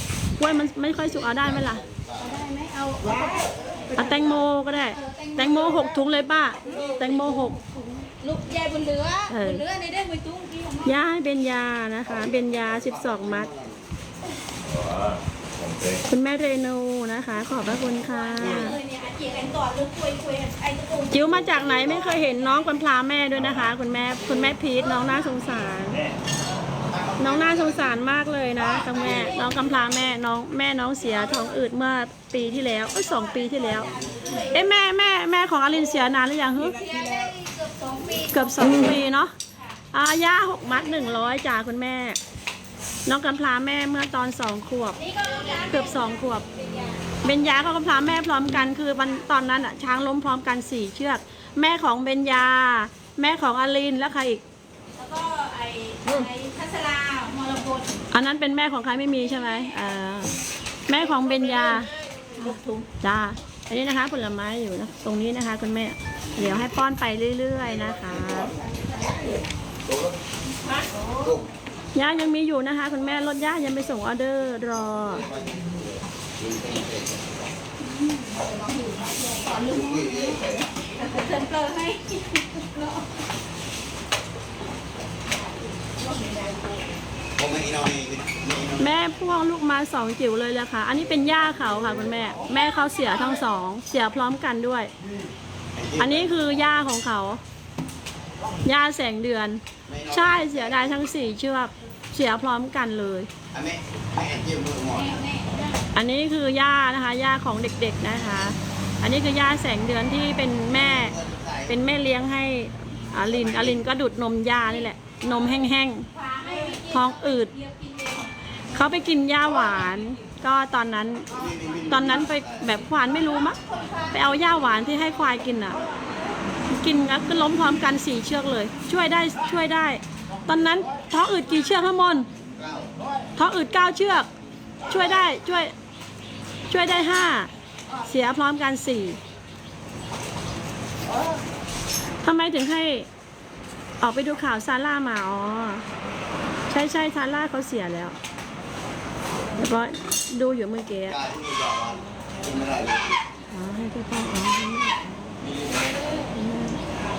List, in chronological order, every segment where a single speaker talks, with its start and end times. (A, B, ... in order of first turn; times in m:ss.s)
0:00.4-0:01.8 A
0:00.8-0:02.4 B
0:02.2-0:04.4 C
0:04.0-0:07.6 A
0:04.9-0:06.0 C
0:06.6-0:11.0 C
0:09.3-0:09.6 A
0:10.8-0:13.5 A
0:12.0-0:13.9 B
0:16.1-0:18.8 A
0:18.1-0:21.3 C
0:21.1-0:26.0 A
0:21.2-0:22.2 B
0:22.1-0:22.7 C
0:24.8-0:25.8 C
0:26.9-0:28.0 B
0:27.2-0:33.9 A
0:28.7-0:29.9 C
0:28.9-0:29.3 B
0:32.6-0:34.7 C
0:34.4-0:36.8 A
0:36.7-0:39.0 C
0:38.3-0:39.3 A
0:39.6-0:39.8 C
0:39.9-0:42.2 A
0:40.9-0:41.2 C
0:43.1-0:46.4 A
0:45.0-0:47.1 C
0:47.2-0:54.4 A
0:55.0-0:57.9 C
0:58.1-1:00.3 A
0:59.4-0:59.7 C
1:00.9-1:08.5 A
1:01.4-1:02.9 C
1:08.5-1:09.4 C
1:09.9-1:10.2 B
1:10.7-1:11.4 C
1:11.2-1:11.5 B
1:12.0-1:15.3 A
1:15.0-1:17.5 B
1:17.9-1:23.1 C
1:19.5-1:20.6 B
1:26.0-1:26.6 C
1:27.4-1:28.9 B
1:28.8-1:34.9 A
1:31.2-1:32.4 B
1:32.7-1:33.1 C
1:35.7-1:36.9 B
1:36.0-1:37.4 A
1:38.6-1:43.3 A
1:39.9-1:41.4 B
1:43.5-1:45.2 B
1:44.9-1:45.8 C
1:46.0-1:57.5 A
1:50.7-1:51.8 B
1:53.2-1:53.9 B
1:56.1-1:58.8 C
1:58.7-2:01.3 A
2:01.3-2:02.9 B
2:01.9-2:03.6 A
2:03.2-2:04.4 C
2:04.1-2:05.8 A
2:05.8-2:06.1 C
2:06.7-2:12.3 A
2:12.6-2:12.9 B
2:13.4-2:14.3 A
2:14.9-2:15.7 A
2:16.7-2:19.2 A
2:22.2-2:23.1 A
2:24.0-2:25.8 A
2:26.7-2:28.2 A
2:29.6-2:31.2 A
2:31.1-2:33.2 B
2:33.5-2:35.0 A
2:35.8-2:36.2 C
2:36.3-2:36.8 A